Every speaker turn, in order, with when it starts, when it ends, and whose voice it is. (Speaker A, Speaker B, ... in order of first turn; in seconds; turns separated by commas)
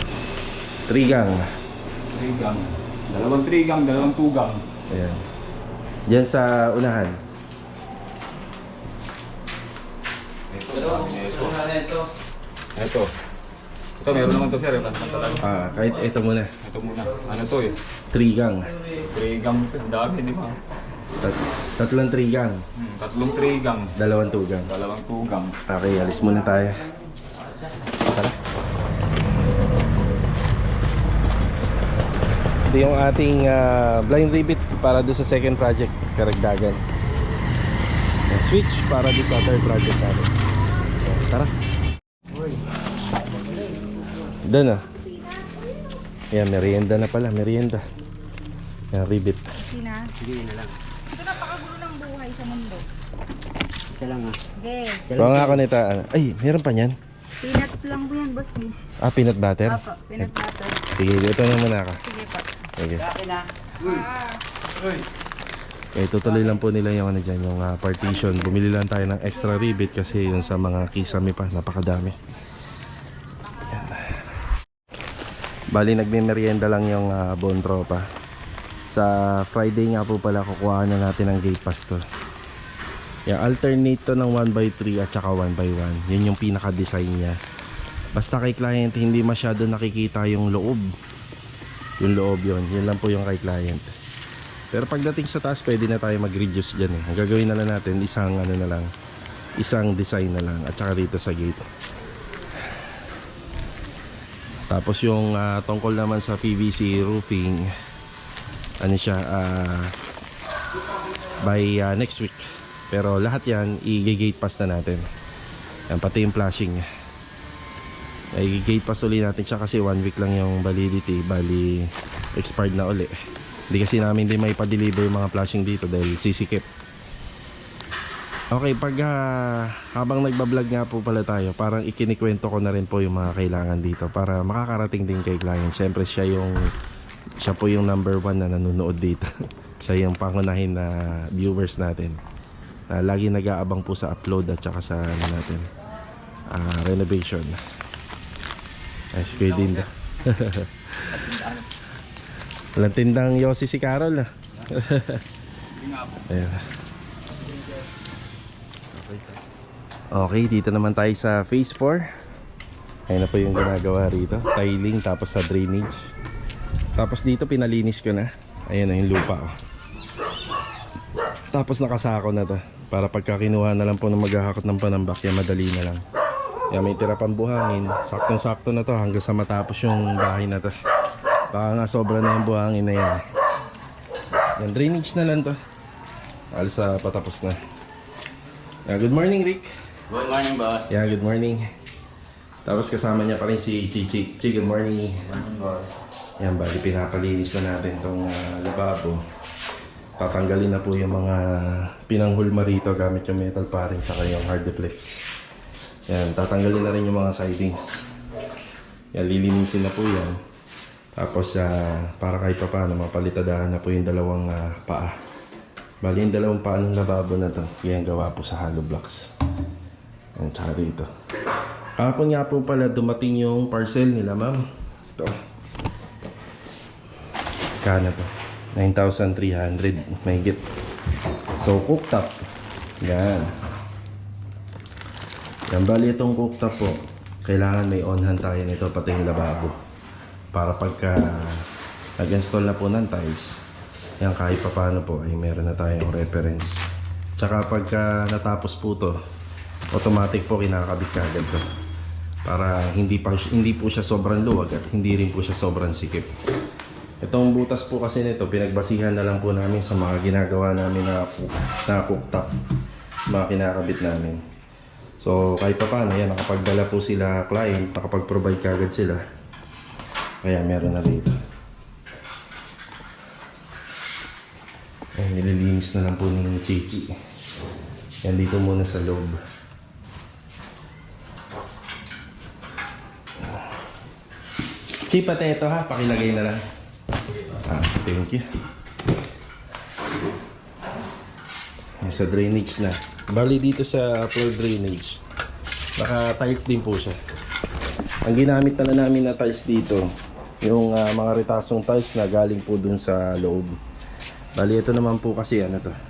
Speaker A: 0.9-1.5, Speaker B: 2.1-4.6, Speaker A: 4.9-5.2, Speaker A: 6.1-7.2, Speaker B: 10.5-11.6, Speaker C: 10.7-12.1, Speaker B: 12.8-13.1, Speaker B: 14.0-15.6, Speaker A: 15.4-16.5, Speaker B: 16.6-17.8, Speaker A: 18.1-18.7, Speaker B: 19.1-20.6, Speaker A: 21.2-22.6, Speaker B: 22.8-23.9, Speaker A: 24.0-24.7, Speaker B: 24.7-25.6, Speaker A: 25.7-26.8, Speaker A: 28.1-28.4, Speaker A: 32.7-36.8, Speaker A: 38.3-40.3, Speaker C: 42.3-42.6, Speaker C: 43.2-44.1, Speaker A: 44.4-44.8, Speaker D: 44.9-45.9, Speaker A: 46.3-47.9, Speaker A: 48.9-49.5, Speaker D: 49.6-50.0, Speaker C: 50.2-50.7, Speaker D: 51.1-52.8, Speaker C: 53.9-54.4, Speaker D: 54.6-55.1, Speaker A: 55.1-57.0, Speaker C: 55.1-55.6, Speaker D: 57.4-58.8, Speaker A: 59.0-59.8, Speaker D: 59.6-60.8, Speaker A: 61.0-62.0, Speaker D: 62.0-62.5, Speaker A: 62.8-63.1, Speaker C: 63.0-64.0, Speaker D: 63.8-64.4, Speaker A: 66.0-72.2, Speaker D: 69.6-70.7, Speaker A: 73.7-74.2, Speaker A: 75.7-78.1, Speaker A: 78.9-82.0, Speaker A: 83.3-87.4, Speaker A: 88.2-90.9, Speaker A: 92.0-93.9, Speaker A: 94.7-98.9, Speaker A: 99.6-101.7, Speaker A: 104.7-107.7, Speaker A: 108.8-109.9, Speaker A: 111.4-115.1, Speaker A: 115.9-116.9, Speaker A: 118.3-123.2, Speaker A: 123.7-126.7, Speaker A: 128.5-136.6, Speaker A: 137.4-139.3, Speaker A: 139.8-142.2, Speaker A: 142.9-145.7, Speaker A: 146.5-147.6, Speaker A: 149.1-151.2, Speaker B: 149.4-149.8, Speaker B: 151.1-151.6, Speaker A: 152.8-155.2, Speaker B: 155.8-156.2, Speaker A: 156.3-156.7, Speaker A: 158.9-159.4, Speaker A: 160.1-162.1, Speaker A: 163.1-166.0, Speaker A: 167.0-169.5, Speaker A: 171.5-176.0, Speaker A: 176.7-180.7, Speaker A: 181.5-183.2, Speaker A: 184.6-185.6, Speaker A: 186.5-187.6, Speaker A: 188.9-189.7, Speaker B: 190.1-190.9, Speaker A: 190.9-191.7, Speaker A: 192.7-195.3, Speaker B: 195.3-195.8, Speaker A: 196.4-199.2, Speaker A: 200.2-205.2, Speaker A: 206.1-208.1, Speaker A: 209.1-210.4, Speaker A: 211.2-215.2, Speaker A: 216.0-219.3, Speaker A: 220.4-221.1, Speaker A: 222.0-224.7, Speaker A: 227.8-230.6, Speaker A: 231.6-232.4, Speaker A: 233.0-233.6, Speaker A: 235.7-239.8, Speaker A: 240.5-241.7, Speaker A: 242.2-243.6, Speaker A: 244.2-246.8, Speaker A: 247.4-249.2, Speaker A: 249.9-251.7, Speaker A: 252.5-256.3, Speaker A: 257.2-262.5, Speaker A: 263.3-264.4, Speaker A: 265.2-269.2, Speaker A: 270.4-271.4, Speaker A: 275.2-277.1, Speaker A: 278.2-279.4, Speaker A: 285.1-286.6, Speaker A: 287.6-288.5, Speaker A: 292.0-295.2, Speaker A: 296.0-297.2, Speaker A: 298.2-300.1, Speaker A: 300.6-303.8, Speaker A: 304.6-305.9